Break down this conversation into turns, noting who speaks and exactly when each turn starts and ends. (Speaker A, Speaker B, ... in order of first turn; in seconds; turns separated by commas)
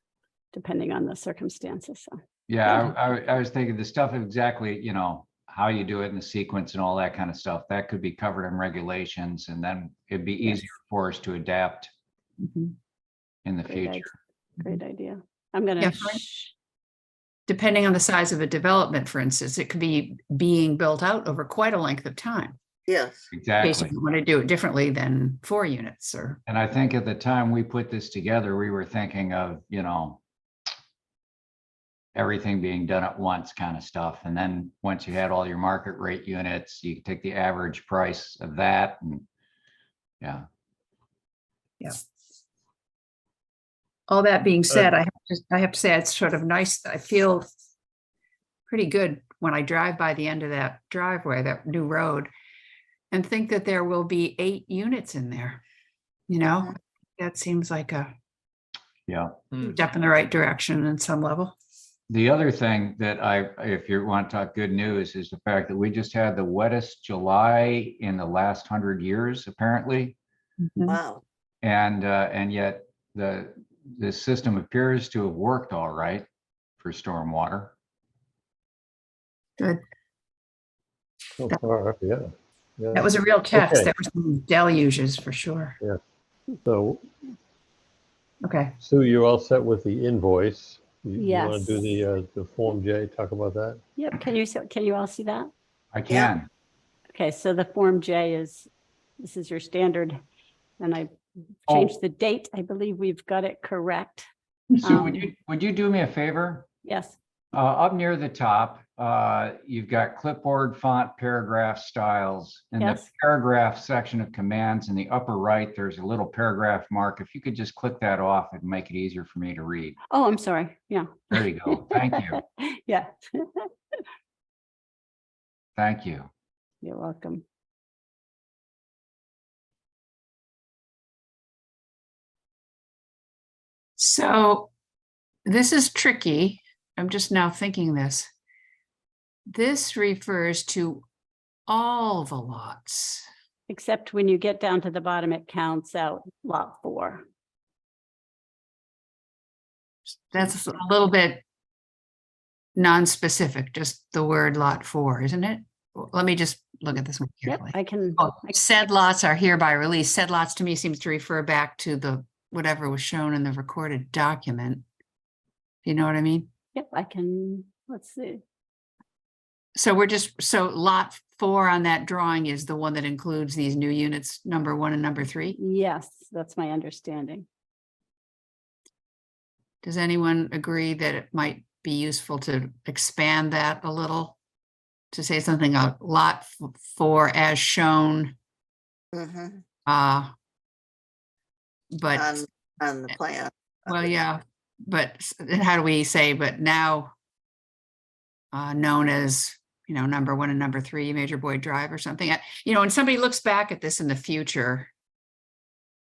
Speaker A: 0.5-2.2, Speaker B: 2.5-11.9, Speaker C: 12.4-12.7, Speaker B: 13.4-14.1, Speaker A: 13.7-14.1, Speaker A: 14.6-16.5, Speaker C: 15.8-16.2, Speaker C: 17.5-22.6, Speaker D: 22.9-23.3, Speaker B: 23.3-23.9, Speaker C: 23.6-26.4, Speaker B: 26.5-30.2, Speaker B: 32.1-39.2, Speaker B: 40.2-40.5, Speaker C: 44.1-47.5, Speaker C: 48.7-52.3, Speaker C: 53.1-55.6, Speaker C: 56.3-58.1, Speaker B: 59.1-59.6, Speaker C: 59.6-61.5, Speaker B: 62.1-70.2, Speaker C: 70.6-71.0, Speaker D: 70.9-71.2, Speaker B: 71.6-76.2, Speaker B: 76.8-77.7, Speaker E: 81.4-83.9, Speaker C: 82.9-85.8, Speaker E: 86.6-87.3, Speaker C: 88.4-88.8, Speaker E: 88.8-93.8, Speaker A: 91.2-91.8, Speaker A: 94.0-95.5, Speaker B: 95.9-96.5, Speaker A: 97.1-98.7, Speaker A: 99.2-100.2, Speaker A: 100.8-101.1, Speaker A: 101.7-104.3, Speaker B: 101.7-102.0, Speaker B: 104.8-106.7, Speaker A: 104.8-105.2, Speaker A: 106.8-107.2, Speaker B: 107.5-120.0, Speaker A: 112.8-113.1, Speaker A: 120.1-123.7, Speaker B: 121.3-122.4, Speaker B: 125.8-126.3, Speaker A: 126.8-127.4, Speaker C: 134.0-134.7, Speaker C: 135.5-138.3, Speaker C: 139.5-141.0, Speaker C: 141.7-143.3, Speaker A: 143.7-147.2, Speaker C: 150.3-151.4, Speaker C: 152.8-164.8, Speaker A: 157.5-158.3, Speaker C: 165.8-166.5, Speaker A: 166.7-168.4, Speaker C: 169.8-175.6, Speaker A: 175.6-177.5, Speaker C: 179.8-184.4, Speaker C: 185.1-188.3, Speaker D: 189.1-189.6, Speaker C: 189.9-190.3, Speaker C: 191.9-192.4, Speaker D: 192.1-194.1, Speaker C: 193.9-197.1, Speaker C: 198.5-204.9